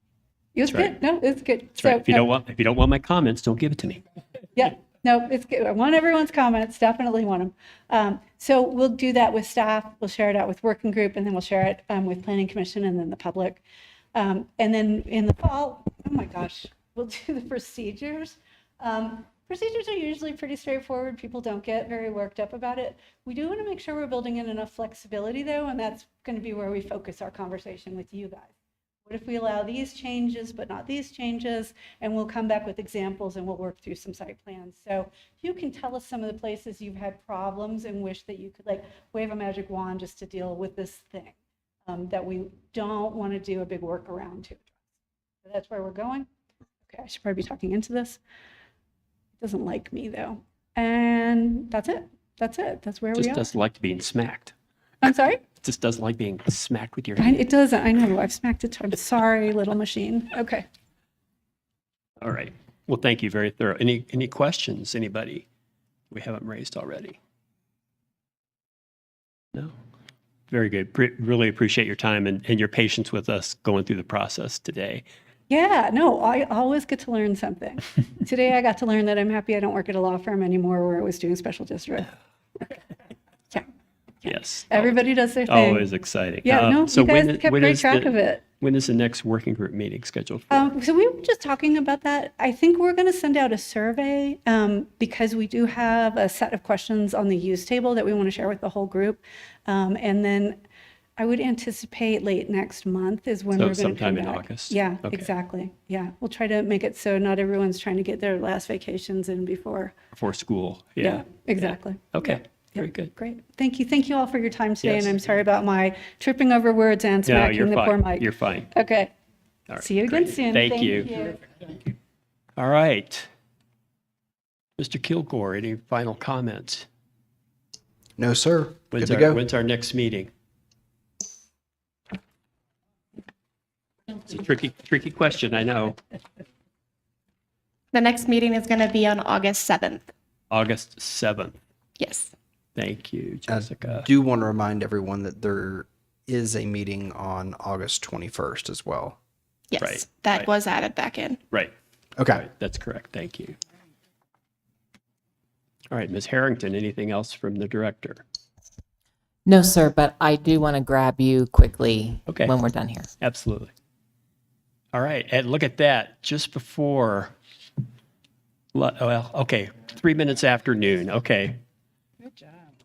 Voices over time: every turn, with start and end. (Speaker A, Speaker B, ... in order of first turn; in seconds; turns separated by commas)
Speaker A: 0.5-2.3, Speaker B: 0.7-0.9, Speaker B: 1.8-4.0, Speaker A: 4.5-13.6, Speaker A: 14.1-28.5, Speaker A: 29.0-44.8, Speaker A: 45.4-46.3, Speaker A: 46.9-48.2, Speaker A: 49.4-53.5, Speaker B: 53.1-54.5, Speaker A: 55.0-55.4, Speaker B: 55.6-57.4, Speaker A: 57.2-60.6, Speaker B: 62.2-65.5, Speaker B: 66.1-67.2, Speaker B: 70.5-75.0, Speaker A: 75.5-82.7, Speaker A: 84.2-85.9, Speaker B: 84.2-90.7, Speaker A: 86.4-88.4, Speaker A: 90.5-100.6, Speaker A: 101.2-109.9, Speaker B: 103.5-105.3, Speaker B: 110.1-113.1, Speaker A: 111.0-119.1, Speaker B: 114.8-115.1, Speaker B: 117.2-118.7, Speaker B: 119.7-121.1, Speaker A: 119.8-121.4, Speaker B: 122.6-123.3, Speaker B: 124.8-126.9, Speaker C: 128.2-129.4, Speaker B: 128.9-130.3, Speaker B: 134.1-135.9, Speaker D: 137.9-140.0, Speaker B: 140.5-141.6, Speaker D: 142.0-142.3, Speaker B: 142.8-144.1, Speaker C: 143.5-149.2, Speaker D: 149.7-151.4, Speaker B: 149.8-150.5, Speaker C: 152.2-152.4, Speaker B: 152.3-153.6, Speaker B: 155.9-158.2, Speaker E: 159.4-163.1, Speaker B: 162.3-162.5, Speaker B: 163.2-163.7, Speaker B: 164.9-167.3, Speaker B: 168.7-171.6